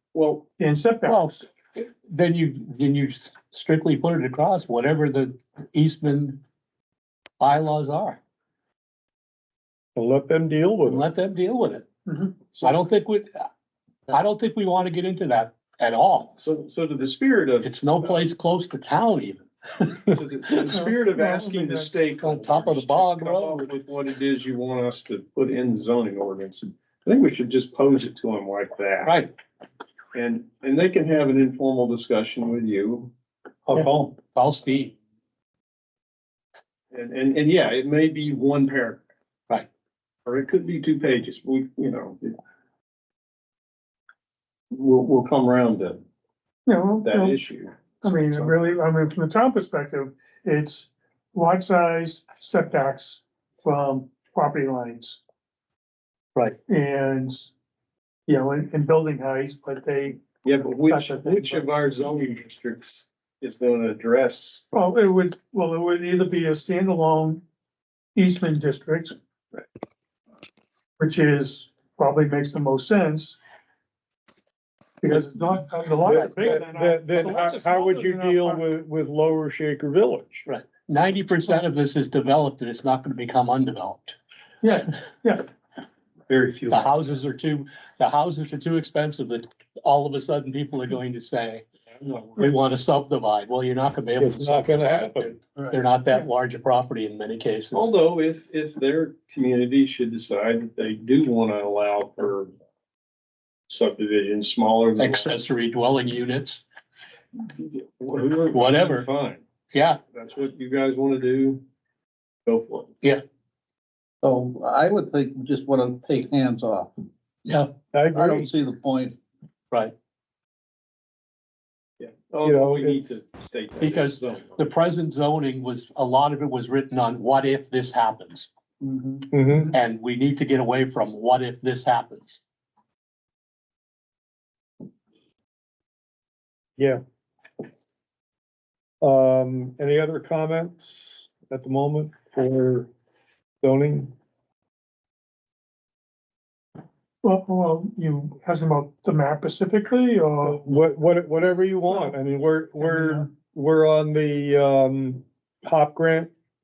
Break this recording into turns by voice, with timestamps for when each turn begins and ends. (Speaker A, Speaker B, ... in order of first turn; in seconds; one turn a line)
Speaker A: 0.1-0.5
Speaker B: 0.6-1.4
Speaker C: 1.1-6.4
Speaker C: 7.4-8.2
Speaker D: 9.9-11.1
Speaker C: 10.9-11.9
Speaker B: 12.1-12.4
Speaker C: 12.6-13.3
Speaker C: 14.1-16.4
Speaker A: 16.4-18.2
Speaker C: 17.6-19.4
Speaker A: 20.1-29.2
Speaker B: 20.7-22.1
Speaker C: 22.2-23.7
Speaker C: 29.0-29.3
Speaker A: 30.1-33.1
Speaker B: 33.7-34.1
Speaker C: 33.7-34.9
Speaker A: 36.9-39.0
Speaker A: 40.2-42.4
Speaker A: 44.7-46.0
Speaker B: 46.7-47.4
Speaker A: 47.0-48.5
Speaker B: 48.0-55.2
Speaker B: 56.7-57.5
Speaker B: 58.3-60.2
Speaker A: 60.4-64.6
Speaker B: 60.9-61.7
Speaker B: 64.7-67.4
Speaker B: 68.2-69.2
Speaker B: 71.0-73.4
Speaker B: 75.0-78.6
Speaker D: 76.0-80.5
Speaker C: 80.5-84.2
Speaker B: 84.6-85.5
Speaker A: 86.3-87.0
Speaker C: 86.7-91.7
Speaker A: 92.0-92.4
Speaker C: 92.4-97.9
Speaker D: 94.2-95.4
Speaker A: 97.7-102.5
Speaker A: 103.7-105.4
Speaker C: 105.0-106.6
Speaker A: 107.5-109.4
Speaker C: 108.5-109.1
Speaker C: 109.7-110.0
Speaker A: 110.1-111.6
Speaker A: 112.5-112.9
Speaker E: 114.2-116.9
Speaker C: 117.5-117.7
Speaker D: 117.9-118.5
Speaker E: 118.1-119.2
Speaker A: 122.0-124.6
Speaker D: 122.4-123.2
Speaker C: 123.8-128.5
Speaker E: 128.9-129.2
Speaker D: 129.3-129.7
Speaker C: 129.7-132.4
Speaker D: 139.0-142.9
Speaker D: 143.6-144.1
Speaker B: 147.2-150.7
Speaker D: 150.4-156.3
Speaker B: 152.8-153.3